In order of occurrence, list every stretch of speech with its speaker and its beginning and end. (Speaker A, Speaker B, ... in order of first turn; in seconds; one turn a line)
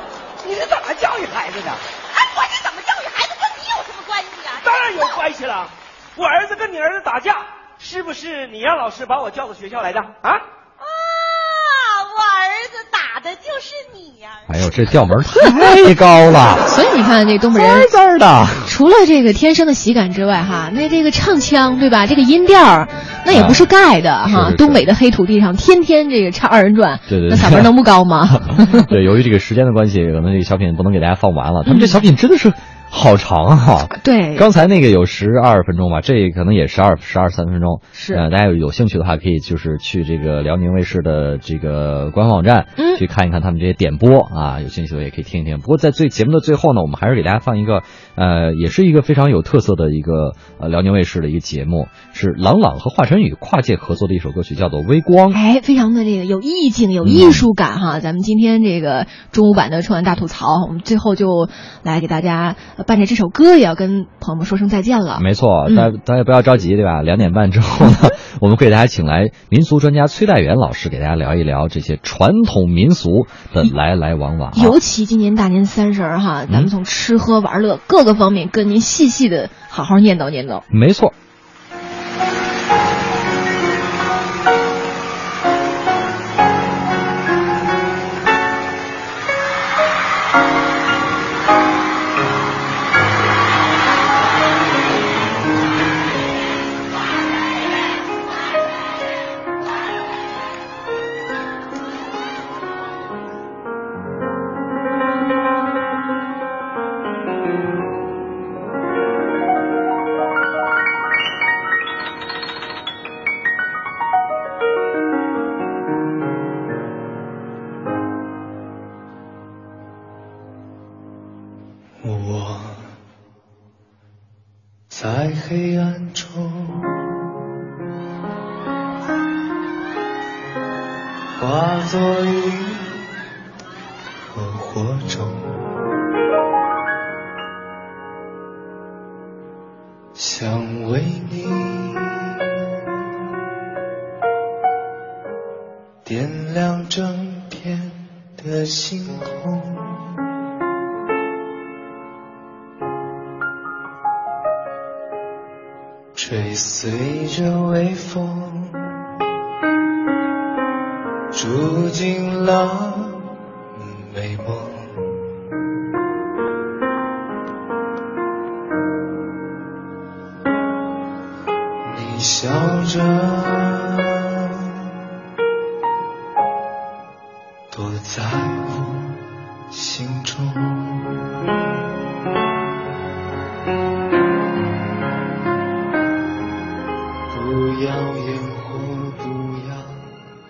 Speaker A: 0.4-1.8
Speaker B: 2.1-5.2
Speaker A: 4.6-10.4
Speaker B: 10.8-14.6
Speaker C: 14.5-16.6
Speaker D: 15.3-16.0
Speaker D: 16.6-17.9
Speaker C: 17.5-18.7
Speaker D: 18.6-28.9
Speaker C: 23.3-23.7
Speaker C: 24.2-24.8
Speaker C: 27.1-27.7
Speaker C: 28.3-55.4
Speaker D: 31.6-32.0
Speaker D: 34.0-34.5
Speaker D: 37.9-38.2
Speaker D: 42.8-43.0
Speaker D: 55.3-65.9
Speaker C: 57.0-57.4
Speaker C: 65.2-74.8
Speaker D: 74.5-80.6
Speaker C: 80.7-81.1
Speaker E: 122.0-123.0
Speaker E: 124.9-127.2
Speaker E: 131.3-133.1
Speaker E: 134.2-135.7
Speaker E: 140.1-142.4
Speaker E: 146.0-150.1
Speaker E: 156.1-159.0
Speaker E: 161.3-165.3
Speaker E: 171.8-174.6
Speaker E: 177.7-181.3
Speaker E: 187.3-190.2